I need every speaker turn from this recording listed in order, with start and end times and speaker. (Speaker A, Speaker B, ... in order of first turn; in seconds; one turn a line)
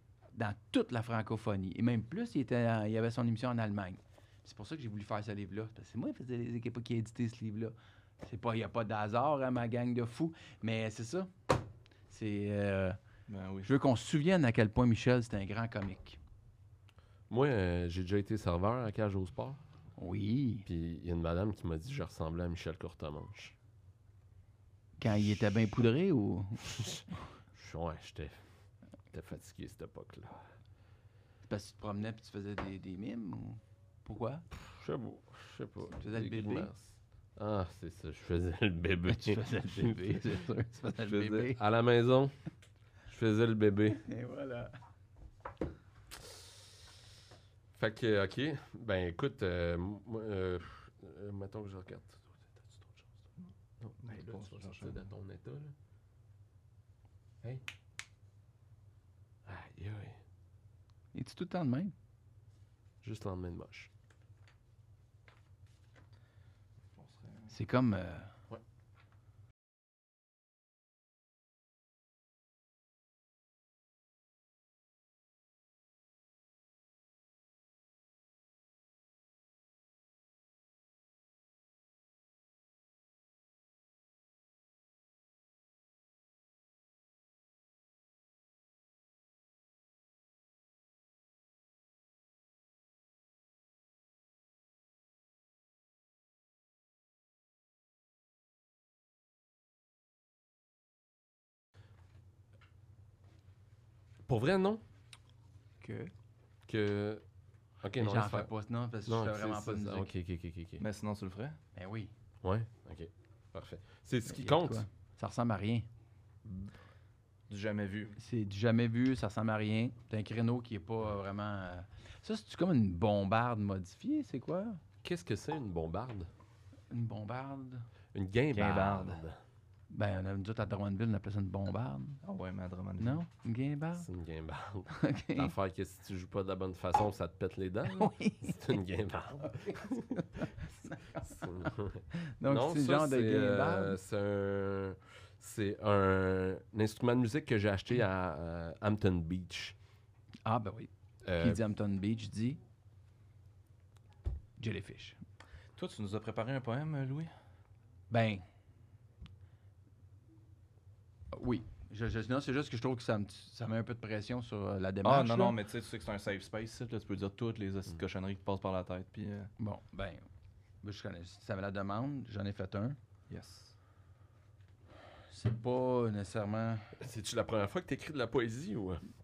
Speaker A: 0.3-11.3
Speaker A: 12.1-13.0
Speaker B: 13.3-13.7
Speaker A: 13.7-16.2
Speaker C: 17.3-19.6
Speaker A: 20.0-20.7
Speaker C: 20.7-23.5
Speaker A: 25.0-27.0
Speaker C: 27.5-28.4
Speaker C: 29.1-30.4
Speaker A: 31.5-34.5
Speaker C: 34.7-40.4
Speaker A: 35.9-36.7
Speaker A: 39.1-41.6
Speaker C: 41.0-42.4
Speaker C: 43.1-44.0
Speaker A: 44.0-44.8
Speaker C: 47.8-53.1
Speaker C: 53.8-55.8
Speaker B: 54.0-55.0
Speaker C: 59.5-60.2
Speaker A: 61.1-61.9
Speaker C: 63.0-63.9
Speaker B: 67.0-67.5
Speaker A: 67.5-68.3
Speaker C: 104.3-104.8
Speaker A: 105.8-106.1
Speaker C: 106.7-107.2
Speaker C: 107.8-108.5
Speaker A: 108.0-110.1
Speaker C: 109.1-110.8
Speaker B: 110.8-111.6
Speaker A: 111.8-112.1
Speaker C: 112.4-114.9
Speaker A: 114.3-115.9
Speaker C: 116.5-116.7
Speaker B: 117.5-118.2
Speaker A: 118.2-124.8
Speaker C: 125.0-126.3
Speaker A: 126.9-127.9
Speaker C: 128.1-129.4
Speaker B: 128.5-129.2
Speaker A: 129.9-132.2
Speaker B: 132.2-133.2
Speaker A: 133.0-134.1
Speaker C: 134.0-140.5
Speaker A: 134.9-135.5
Speaker A: 137.8-138.7
Speaker A: 139.5-144.0
Speaker C: 141.2-149.8
Speaker A: 150.5-152.6
Speaker C: 151.2-151.6
Speaker A: 154.6-155.2
Speaker B: 155.8-157.3
Speaker A: 158.1-158.4
Speaker A: 161.3-165.6
Speaker B: 165.0-169.5
Speaker A: 169.6-170.2
Speaker A: 170.8-173.0
Speaker B: 173.3-173.8
Speaker A: 175.3-176.9
Speaker C: 177.0-179.0